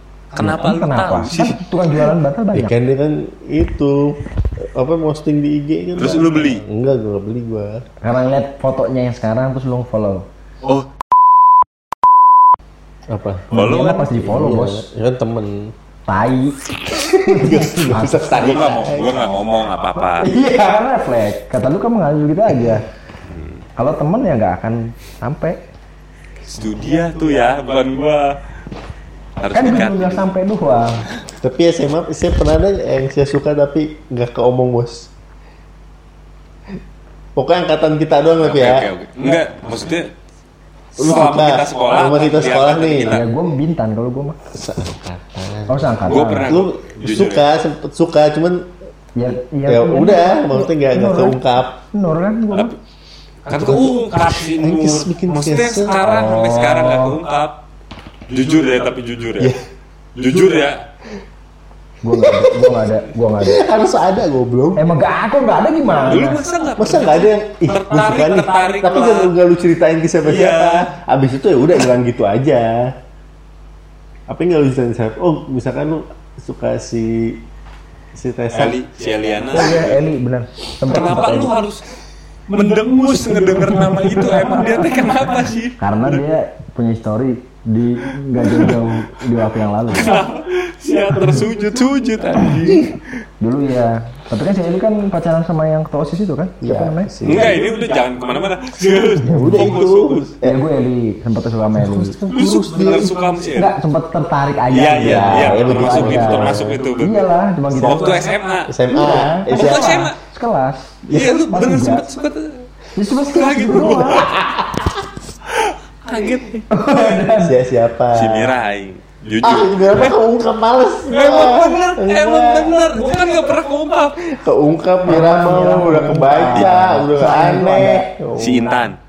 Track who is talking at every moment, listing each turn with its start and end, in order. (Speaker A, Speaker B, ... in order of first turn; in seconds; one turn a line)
Speaker A: 0.3-1.6
Speaker B: 0.4-2.7
Speaker C: 2.5-7.8
Speaker A: 6.0-6.6
Speaker B: 8.0-10.3
Speaker C: 13.1-13.5
Speaker A: 13.5-14.1
Speaker B: 13.5-14.8
Speaker C: 14.1-15.7
Speaker B: 16.1-16.6
Speaker C: 16.9-19.2
Speaker B: 17.1-18.5
Speaker A: 18.3-20.3
Speaker B: 20.2-22.8
Speaker A: 23.3-23.6
Speaker B: 23.8-25.6
Speaker A: 26.4-28.4
Speaker A: 29.4-30.3
Speaker B: 29.5-31.0
Speaker C: 31.4-35.1
Speaker C: 37.4-38.9
Speaker A: 38.4-40.1
Speaker A: 40.9-43.2
Speaker C: 41.0-43.2
Speaker B: 43.1-44.4
Speaker C: 44.5-48.7
Speaker B: 45.7-46.5
Speaker A: 46.0-47.4
Speaker B: 49.2-51.4
Speaker C: 49.7-51.8
Speaker B: 51.9-52.7
Speaker A: 53.5-57.6
Speaker C: 53.5-53.9
Speaker C: 54.5-56.1
Speaker B: 56.0-57.2
Speaker A: 58.3-59.5
Speaker A: 60.1-60.8
Speaker B: 62.0-63.6
Speaker C: 62.1-62.9
Speaker C: 63.4-64.9
Speaker B: 64.8-66.4
Speaker C: 65.9-72.9
Speaker A: 66.0-69.3
Speaker A: 70.2-70.9
Speaker C: 74.3-77.4
Speaker C: 78.1-78.8
Speaker A: 78.5-80.0
Speaker B: 79.5-81.5
Speaker C: 79.6-79.8
Speaker A: 80.8-81.8
Speaker A: 82.5-85.8
Speaker B: 85.8-90.2
Speaker A: 88.4-88.8
Speaker A: 89.9-93.0
Speaker B: 93.4-97.1
Speaker C: 96.6-97.6
Speaker A: 97.2-100.3
Speaker B: 99.3-99.7
Speaker C: 99.3-100.6
Speaker B: 100.4-102.2
Speaker C: 101.8-103.2
Speaker A: 102.3-103.7
Speaker B: 103.5-108.3
Speaker A: 104.7-108.8
Speaker C: 105.0-106.8
Speaker C: 108.7-110.0
Speaker B: 108.9-112.0
Speaker A: 109.5-110.1
Speaker A: 111.1-112.6
Speaker B: 113.0-114.3
Speaker A: 113.2-114.5
Speaker A: 115.5-116.7
Speaker B: 116.7-117.6
Speaker C: 117.4-118.5
Speaker A: 118.1-120.1
Speaker C: 119.4-123.4
Speaker A: 121.1-124.2
Speaker C: 124.2-128.9
Speaker B: 125.0-128.1
Speaker A: 128.4-129.0